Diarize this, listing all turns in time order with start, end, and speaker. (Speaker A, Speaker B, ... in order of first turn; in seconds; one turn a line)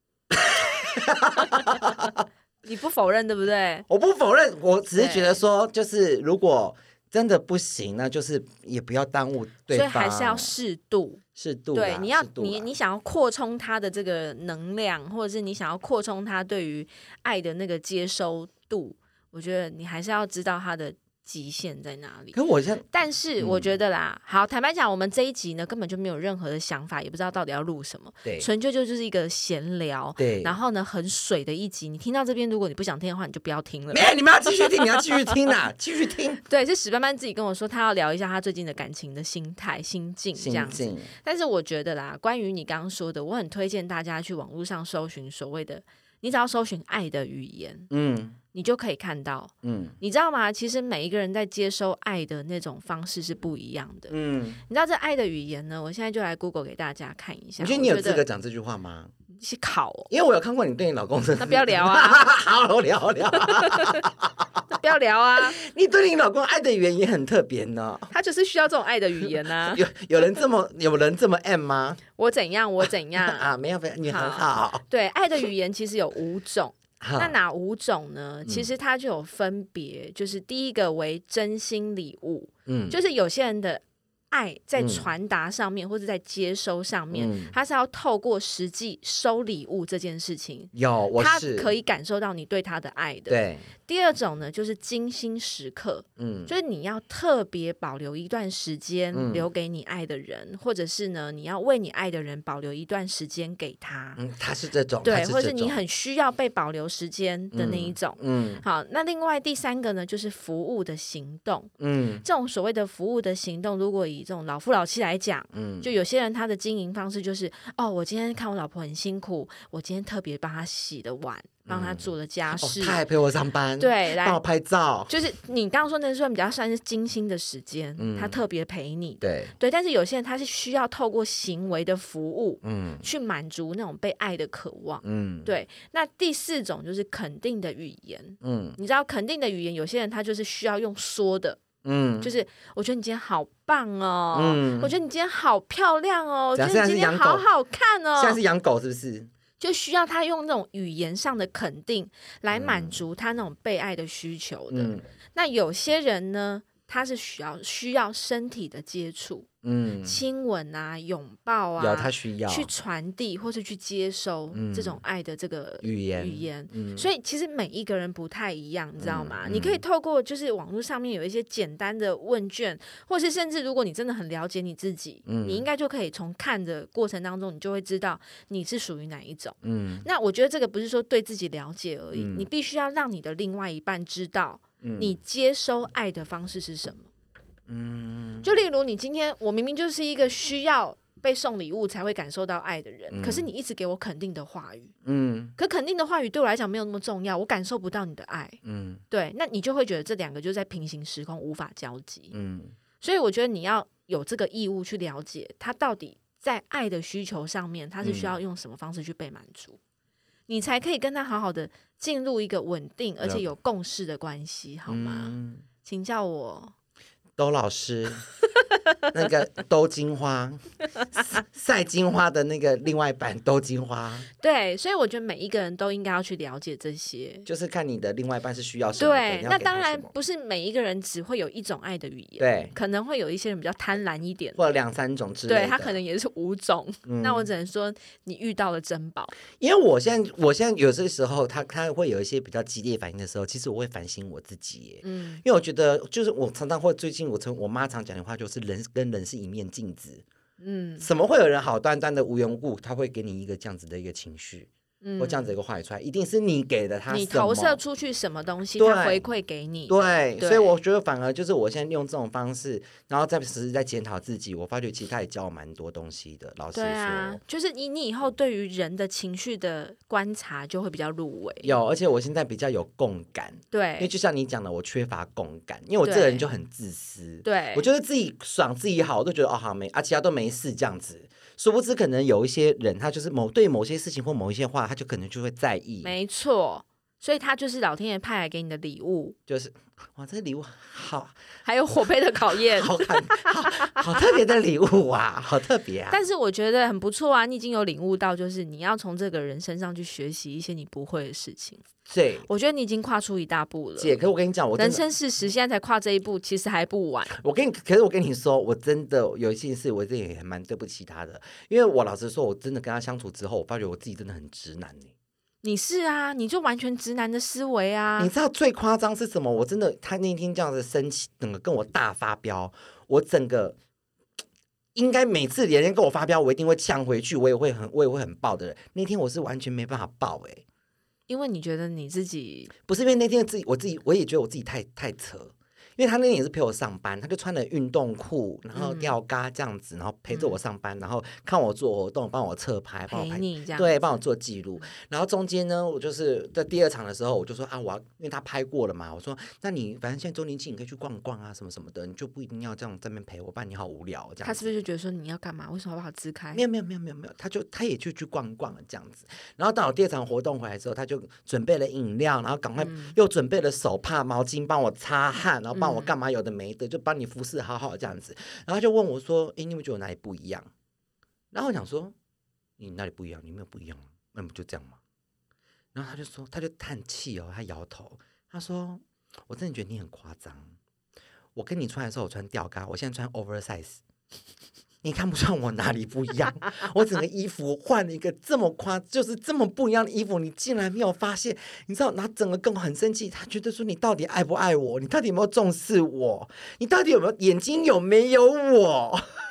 Speaker A: 0.3-2.2
Speaker B: 1.4-1.8
Speaker B: 2.6-3.9
Speaker A: 3.9-10.5
Speaker B: 5.0-5.4
Speaker B: 9.7-11.2
Speaker A: 11.3-12.7
Speaker B: 11.7-22.4
Speaker A: 22.3-22.8
Speaker B: 22.9-35.0
Speaker A: 23.4-23.7
Speaker A: 30.2-30.6
Speaker A: 33.9-36.4
Speaker B: 36.5-47.9
Speaker A: 40.4-41.1
Speaker A: 47.9-48.4
Speaker B: 48.5-58.2
Speaker A: 49.6-50.0
Speaker A: 54.1-54.6
Speaker A: 57.6-59.1
Speaker B: 59.3-60.1
Speaker A: 60.1-64.6
Speaker B: 61.4-62.3
Speaker B: 63.4-64.0
Speaker B: 64.7-65.6
Speaker A: 65.4-68.1
Speaker B: 68.1-69.8
Speaker A: 69.2-72.0
Speaker B: 72.2-73.5
Speaker A: 73.2-74.8
Speaker B: 74.0-104.2
Speaker A: 77.0-77.4
Speaker A: 82.7-83.0
Speaker A: 84.8-85.1
Speaker A: 87.1-87.5
Speaker A: 90.7-91.7
Speaker A: 93.3-93.7
Speaker A: 96.2-96.5
Speaker A: 99.1-99.5
Speaker A: 104.2-105.8
Speaker B: 105.0-111.7
Speaker A: 107.5-108.6
Speaker A: 111.8-112.2
Speaker B: 112.2-123.0
Speaker A: 115.5-115.9
Speaker A: 121.7-125.1
Speaker B: 123.8-124.4
Speaker B: 125.1-141.6
Speaker A: 128.0-128.4
Speaker A: 129.2-129.5
Speaker A: 132.6-133.0
Speaker A: 135.0-135.5
Speaker A: 138.4-138.8
Speaker A: 141.8-142.3
Speaker B: 142.2-148.4
Speaker A: 144.3-144.9
Speaker A: 146.5-147.4
Speaker A: 148.2-149.3
Speaker B: 149.6-159.5
Speaker A: 152.5-153.0
Speaker A: 154.7-155.0
Speaker A: 159.6-160.2
Speaker B: 160.0-187.1
Speaker A: 161.8-162.7
Speaker A: 164.5-165.0
Speaker A: 165.8-167.1
Speaker A: 169.0-169.8
Speaker A: 175.2-175.6
Speaker A: 179.6-180.1
Speaker A: 182.1-182.5
Speaker A: 184.8-185.1
Speaker A: 187.7-188.5
Speaker B: 188.4-194.9
Speaker A: 193.1-193.5
Speaker A: 195.0-195.5
Speaker B: 195.6-198.6
Speaker A: 198.6-199.0
Speaker B: 199.1-202.3
Speaker A: 202.3-202.7
Speaker B: 203.0-209.8
Speaker A: 208.0-208.3
Speaker B: 210.5-216.7
Speaker A: 214.9-215.6
Speaker A: 217.4-218.2
Speaker A: 219.1-220.6
Speaker A: 221.2-224.3
Speaker B: 224.4-227.5
Speaker A: 227.4-230.1
Speaker B: 229.0-234.6
Speaker A: 232.4-232.7
Speaker A: 234.6-236.0
Speaker B: 235.5-239.3
Speaker A: 237.1-237.5
Speaker A: 239.6-250.2
Speaker B: 245.0-245.4
Speaker B: 250.6-251.1
Speaker A: 251.0-257.8
Speaker B: 255.0-255.5
Speaker B: 257.1-260.7
Speaker A: 258.8-259.2
Speaker A: 259.9-267.4
Speaker B: 266.7-271.7
Speaker A: 271.6-286.1
Speaker B: 273.7-274.1
Speaker B: 276.0-276.5
Speaker B: 277.4-277.9
Speaker B: 286.0-289.4
Speaker A: 289.5-291.3
Speaker B: 291.6-294.2
Speaker A: 292.6-296.2
Speaker B: 296.1-301.8
Speaker A: 302.1-302.4
Speaker B: 302.4-304.2
Speaker A: 304.0-305.0
Speaker B: 304.7-307.4
Speaker A: 307.3-315.1
Speaker B: 315.6-318.3
Speaker A: 318.2-323.8
Speaker A: 324.9-330.6
Speaker B: 331.3-332.7
Speaker A: 332.9-354.7
Speaker B: 338.7-339.1
Speaker B: 343.1-344.1
Speaker B: 354.4-356.6
Speaker A: 356.5-370.7
Speaker B: 362.8-363.1
Speaker B: 365.7-366.1
Speaker A: 371.5-372.1
Speaker A: 372.8-375.0
Speaker A: 375.9-380.7
Speaker A: 381.5-384.0
Speaker A: 385.0-399.4